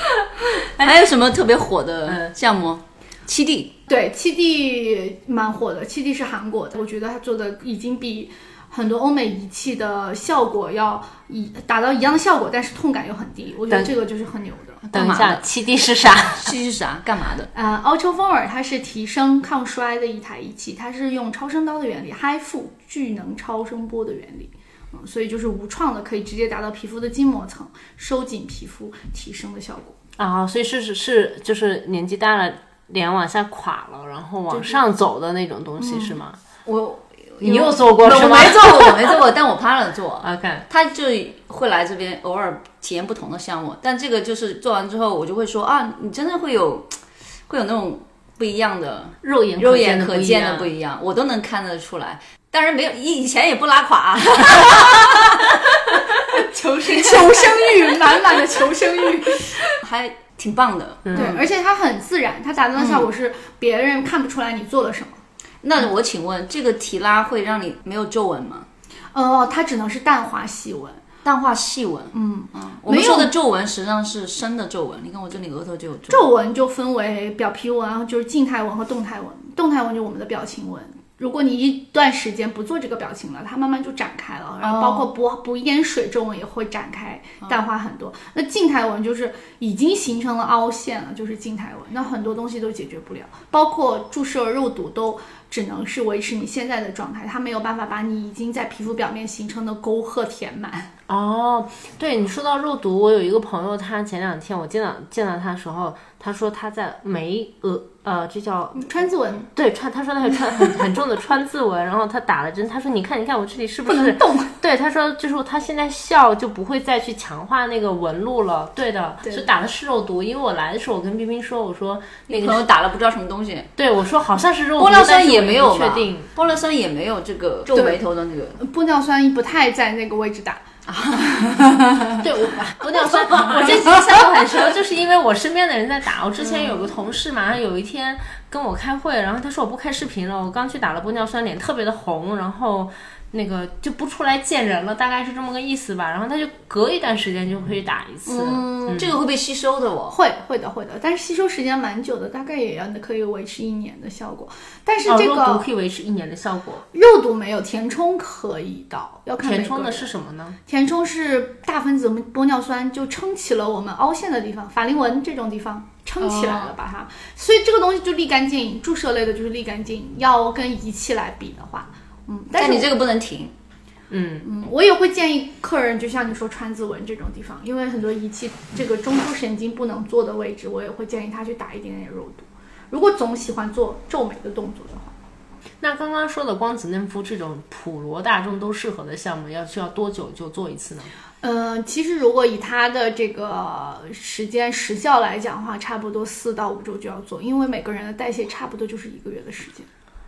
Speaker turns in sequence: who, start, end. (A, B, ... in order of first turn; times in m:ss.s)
0:00.5-0:03.8 A
0:00.6-0:01.1 B
0:02.1-0:02.3 B
0:03.9-0:14.8 C
0:14.8-0:15.5 A
0:14.9-0:16.5 B
0:16.4-0:17.5 A
0:17.5-0:30.0 C
0:30.2-0:36.4 B
0:35.8-0:36.2 C
0:36.6-0:57.8 A
0:37.4-0:39.2 B
0:40.2-0:40.7 B
0:49.2-0:50.7 B
0:56.7-0:59.8 C
0:59.6-1:01.5 A
1:01.0-1:01.3 B
1:01.1-1:05.2 C
1:02.8-1:03.1 A
1:05.6-1:08.7 A
1:09.1-1:11.0 C
1:11.2-1:16.3 A
1:12.1-1:13.3 C
1:16.1-1:40.9 C
1:24.6-1:25.1 A
1:41.1-2:02.7 B
1:48.8-1:49.5 C
1:53.9-1:54.6 C
1:59.2-1:59.5 C
2:02.3-2:03.7 A
2:03.8-2:06.3 B
2:04.8-2:08.6 A
2:07.7-2:08.0 C
2:08.6-2:10.6 C
2:10.9-2:11.8 A
2:12.2-2:29.2 B
2:12.8-2:14.8 A
2:28.3-2:30.2 A
2:30.1-2:35.7 C
2:35.0-2:36.8 B
2:36.9-2:40.1 C
2:39.4-2:40.6 B
2:40.7-2:53.0 C
2:46.2-2:46.7 A
2:52.6-2:53.5 A
2:54.1-2:54.5 B
2:54.4-3:05.1 C
3:05.8-3:11.1 B
3:11.4-3:19.9 C